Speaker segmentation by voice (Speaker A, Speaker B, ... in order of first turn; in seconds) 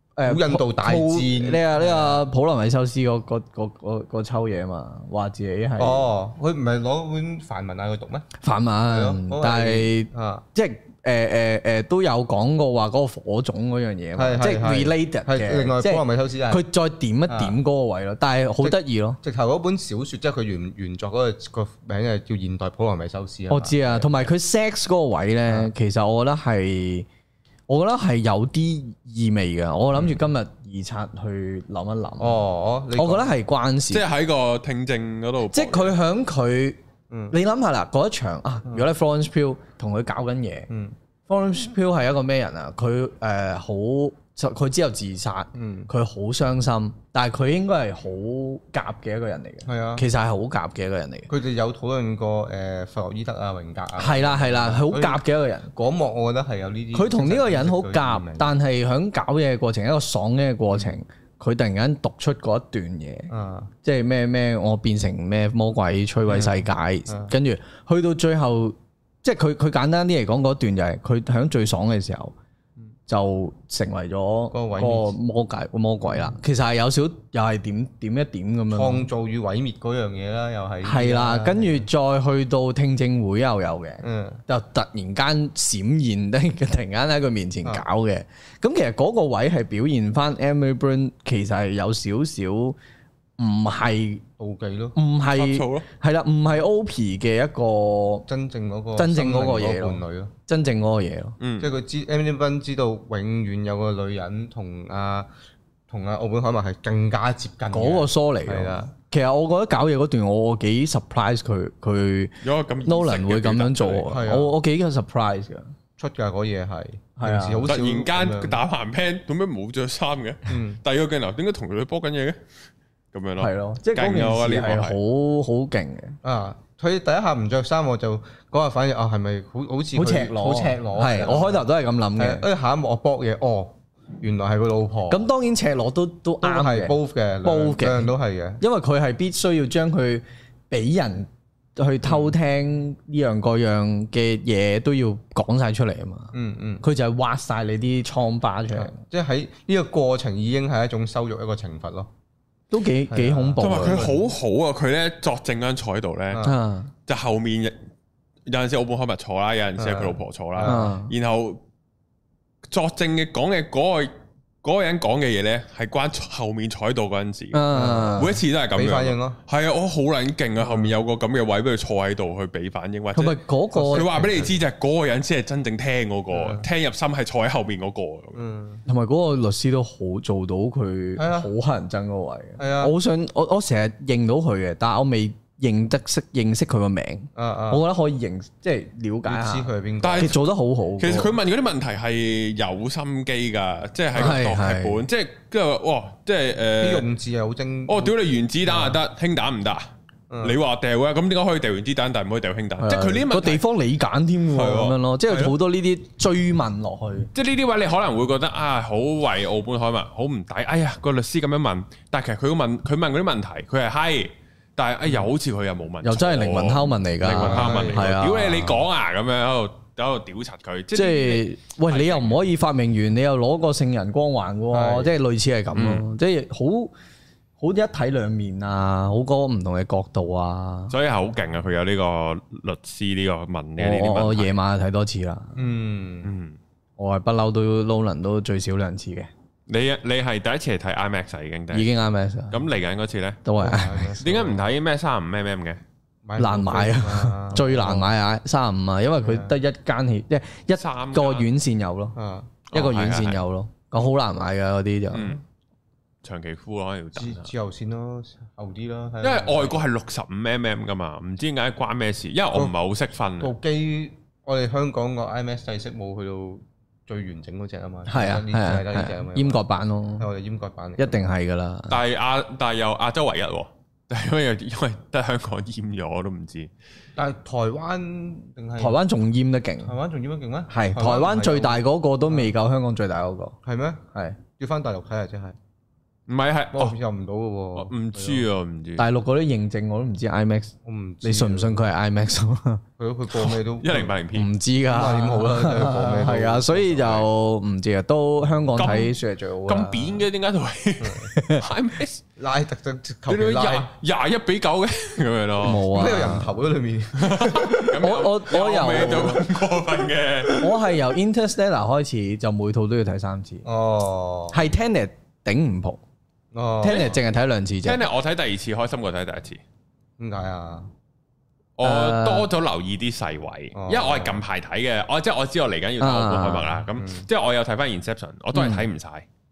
Speaker A: 0.2-6.1, 8.4-19.2, 23.5-27.1, 27.7-32.4, 32.9-34.1, 35.5-36.8, 37.3-40.7, 41.3-51.3, 54.0-55.7, 56.9-63.3, 63.8-72.3, 73.1-79.1, 80.8-92.8, 93.4-94.2, 95.0-98.3, 99.0-101.4, 107.7-115.7, 117.2-117.7, 123.4-126.2, 129.9-132.4, 135.1-149.0, 152.7-154.1, 156.4-156.9, 160.7-161.1, 167.5-168.4, 173.1-174.3, 178.9-191.3, 194.2-195.0, 202.8-207.3, 216.0-218.8, 220.9-226.9, 227.6-230.9, 233.8-235.6, 237.0-239.3, 241.7-242.6, 243.4-244.2, 246.4-252.2, 252.7-255.4, 268.1-270.3, 271.0-272.0, 278.8-279.9, 280.7-283.6, 284.1-284.4, 289.0-292.8, 294.4-300.2, 301.3-301.6, 305.6-306.6, 307.6-309.5, 310.5-313.6, 314.5-316.0, 316.8-318.0, 321.8-322.5, 326.0-326.8, 328.5-328.9
Speaker B: 0.2-2.2, 5.8-8.3, 8.9-10.4, 14.2-16.6, 17.3-17.6, 18.6-24.3, 29.9-30.2, 32.2-33.3, 37.1-37.4, 40.7-41.0, 45.5-45.9, 49.6-50.1, 51.3-58.5, 63.3-63.7, 66.3-67.3, 74.5-75.2, 78.7-81.9, 84.0-84.4, 94.4-95.0, 98.3-100.3, 101.6-105.3, 105.9-108.9, 114.1-114.5, 116.0-118.6, 120.5-120.8, 126.2-131.7, 132.2-135.2, 136.4-138.6, 142.1-142.3, 146.3-146.8, 148.7-152.1, 153.1-154.3, 156.3-156.6, 159.8-160.9, 167.7-169.4, 170.6-170.9, 173.7-174.6, 176.3-176.7, 178.3-178.8, 181.2-181.5, 182.6-182.9, 187.3-187.8, 189.3-190.4, 196.8-199.0, 200.3-200.6, 217.4-218.2, 224.7-225.1, 235.6-236.3, 243.6-244.7, 246.2-248.1, 249.2-249.6, 252.2-252.5, 257.1-259.8, 263.4-269.6, 270.2-271.2, 277.2-279.0, 279.8-282.5, 283.6-284.0, 284.6-285.6, 286.7-288.5, 290.9-291.8, 293.0-294.2, 294.8-297.3, 301.0-301.3, 302.4-303.9, 305.9-307.8, 313.6-314.6, 316.5-317.2, 320.2-320.9, 323.8-324.4, 327.0-327.3
Speaker C: 33.9-36.0, 95.2-95.9, 101.4-101.7, 112.4-114.2, 117.7-122.4, 123.1-125.0, 153.6-156.5, 157.1-157.8, 158.5-161.6, 162.7-164.1, 164.6-178.4, 190.0-190.4, 191.0-197.1, 197.9-199.9, 200.4-203.6, 204.5-205.4, 207.3-222.5, 225.7-226.0, 230.9-234.6, 236.2-236.6, 239.7-241.9, 242.5-243.4, 244.2-245.8, 250.7-251.5, 252.7-253.4, 255.1-255.4, 256.2-257.5, 259.2-263.5, 271.9-276.7, 286.3-287.0, 287.8-289.1, 293.3-294.5, 298.8-302.2, 303.3-306.0, 307.2-310.7, 316.9-317.2, 317.8-319.6, 321.8-329.3